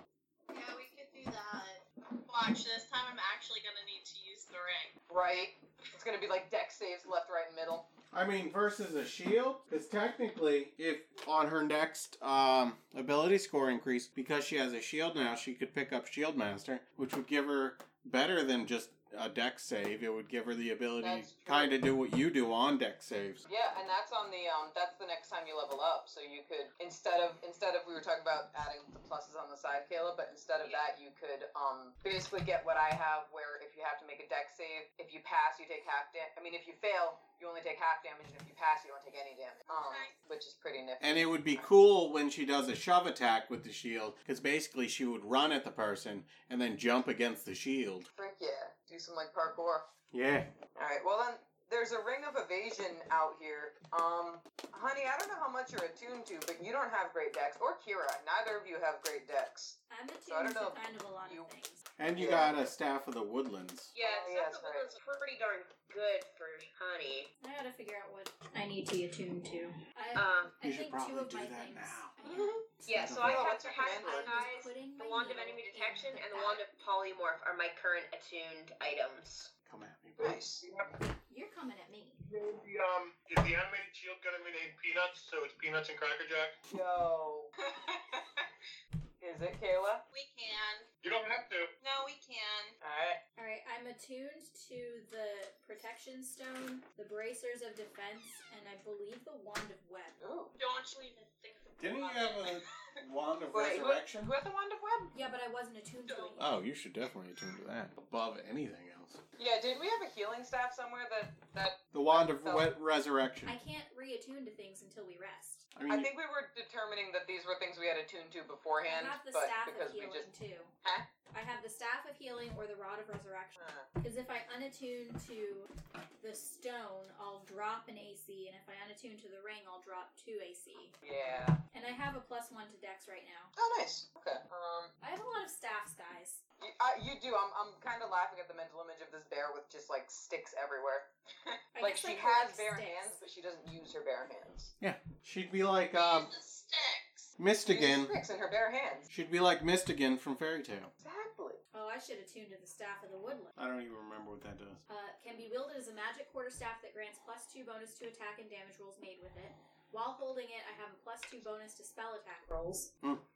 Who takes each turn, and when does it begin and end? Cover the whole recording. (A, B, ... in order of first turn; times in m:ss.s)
0:00.5-0:05.0 A
0:05.1-0:07.8 B
0:08.1-0:23.4 C
0:21.0-0:21.8 B
0:23.4-0:41.7 B
0:39.6-0:40.2 A
0:41.0-0:48.1 C
0:48.1-0:49.8 B
0:50.1-0:50.5 C
0:50.8-1:01.5 B
0:59.9-1:01.8 D
1:02.0-1:03.9 C
1:02.1-1:02.5 B
1:03.9-1:07.3 E
1:04.0-1:04.9 B
1:07.4-1:13.2 D
1:10.1-1:10.5 E
1:10.6-1:12.1 C
1:12.2-1:12.6 B
1:12.8-1:19.5 E
1:12.9-1:13.4 C
1:13.2-1:14.4 B
1:14.0-1:16.6 D
1:19.6-1:20.4 C
1:20.2-1:20.6 B
1:20.6-1:21.0 F
1:21.3-1:22.2 D
1:22.2-1:26.6 F
1:26.7-1:27.5 B
1:29.2-1:30.0 B
1:30.1-1:30.9 A
1:31.0-1:31.7 F
1:31.8-1:32.8 A
1:32.8-1:33.2 B
1:33.4-1:40.2 D
1:40.2-1:40.5 B
1:40.6-1:43.0 A
1:41.8-1:44.3 C
1:43.5-1:45.1 B
1:45.1-1:46.5 D
1:46.1-1:46.4 A
1:46.4-1:49.2 C
1:49.4-1:52.7 B
1:51.9-1:53.5 C
1:53.4-1:55.7 D
1:55.7-1:56.1 C
1:55.9-2:00.3 B
1:58.8-2:00.7 D
2:01.3-2:05.7 D
2:03.6-2:03.9 B
2:06.2-2:10.9 D
2:11.0-2:11.6 B
2:11.7-2:13.5 D
2:13.6-2:14.9 B
2:15.0-2:16.4 D
2:16.6-2:24.7 B
2:21.7-2:23.2 D
2:24.8-2:26.3 C
2:25.9-2:27.3 A
2:27.4-2:28.1 C
2:27.6-2:29.1 B
2:29.1-2:30.9 C
2:31.0-2:31.6 B
2:31.7-2:33.6 D
2:33.6-2:34.8 C
2:34.9-2:42.9 D